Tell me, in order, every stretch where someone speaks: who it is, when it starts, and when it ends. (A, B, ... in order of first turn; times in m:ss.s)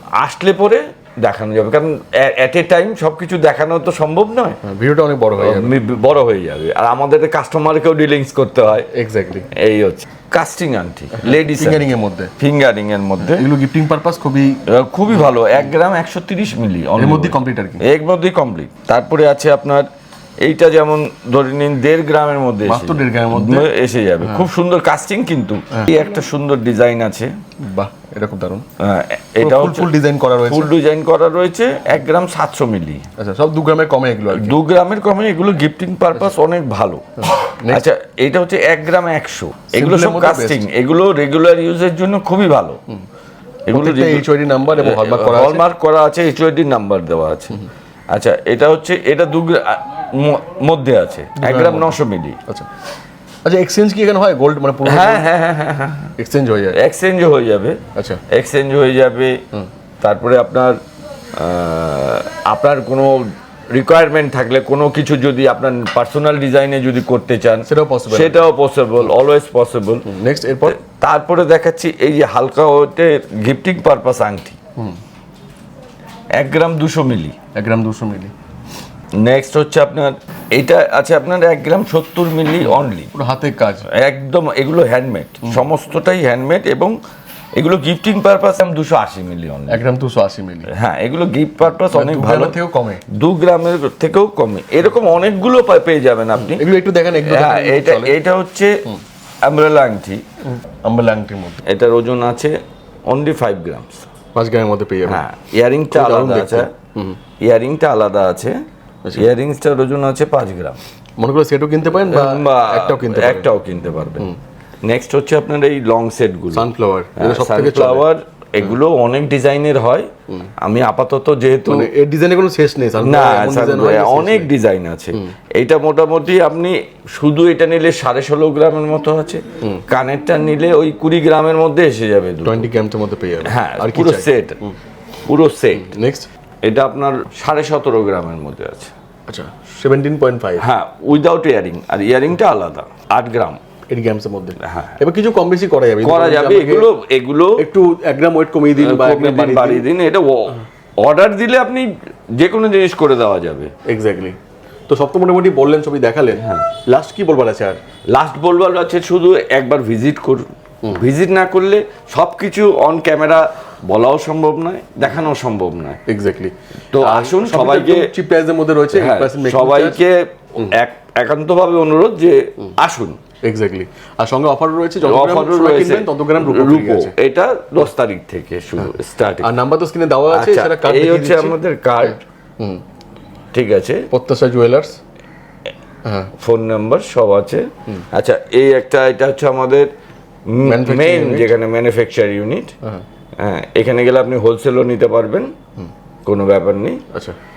0:00.1-0:04.6 A
0:04.6-0:05.8 B
0:05.4-0:08.9 A
0:08.9-0:09.5 B
0:09.5-0:11.8 A
0:11.2-0:12.3 B
0:12.4-0:13.4 A
0:13.2-0:14.6 B
0:14.6-0:19.9 A
0:17.0-0:17.8 B
0:20.4-0:27.3 A
0:22.6-0:23.7 B
0:24.2-0:24.5 B
0:27.6-0:28.6 B
0:28.8-0:29.9 A
0:29.4-0:30.7 B
0:30.5-0:33.0 A
0:33.2-0:34.6 B
0:34.3-0:42.8 A
0:37.2-0:37.9 B
0:39.7-0:40.6 B
0:43.7-0:52.4 A
0:43.7-0:45.6 B
0:51.4-0:52.7 B
0:53.4-0:55.2 B
0:54.8-0:56.1 A
0:56.2-0:56.8 B
0:56.7-0:59.4 A
0:58.0-0:58.2 B
1:00.0-1:00.8 A
1:01.4-1:10.1 A
1:07.7-1:08.4 B
1:10.0-1:10.8 B
1:10.6-1:14.6 A
1:16.4-1:17.4 A
1:17.5-1:18.3 B
1:19.2-1:23.1 A
1:23.1-1:23.9 B
1:23.9-1:27.0 A
1:27.6-1:29.8 A
1:29.7-1:30.7 B
1:30.7-1:32.6 A
1:31.9-1:33.0 B
1:33.1-1:36.6 A
1:36.4-1:38.2 B
1:37.2-1:38.8 A
1:39.4-1:40.2 A
1:40.5-1:41.6 B
1:41.6-1:42.6 A
1:43.1-1:44.0 A
1:44.3-1:45.2 B
1:45.0-1:46.7 A
1:45.9-1:47.2 B
1:47.4-1:48.5 A
1:49.1-1:50.8 A
1:51.2-1:53.5 B
1:52.0-1:54.3 A
1:54.8-2:00.1 A
1:56.5-1:58.0 B
2:00.6-2:01.9 A
2:01.7-2:04.5 B
2:03.0-2:12.7 A
2:12.4-2:14.8 B
2:13.4-2:14.6 A
2:15.3-2:15.9 A
2:15.8-2:16.3 B
2:16.6-2:18.9 A
2:19.3-2:20.6 B
2:20.6-2:23.6 A
2:23.9-2:26.9 B
2:24.6-2:25.0 A
2:26.0-2:27.6 A
2:27.6-2:29.9 B
2:28.8-2:33.7 A
2:33.8-2:34.4 B
2:34.9-2:37.8 B
2:36.4-2:36.7 A
2:38.1-2:46.0 A
2:46.0-2:50.0 B
2:46.9-2:48.1 A
2:48.9-2:53.2 A
2:53.4-2:57.1 B
2:55.0-2:59.5 A
2:58.8-3:02.8 B
3:00.3-3:02.2 A
3:03.5-3:04.1 A
3:04.1-3:05.0 B
3:06.0-3:06.3 B
3:06.4-3:09.9 A
3:10.5-3:12.7 A
3:10.6-3:11.5 B
3:13.4-3:15.5 A
3:16.2-3:17.0 A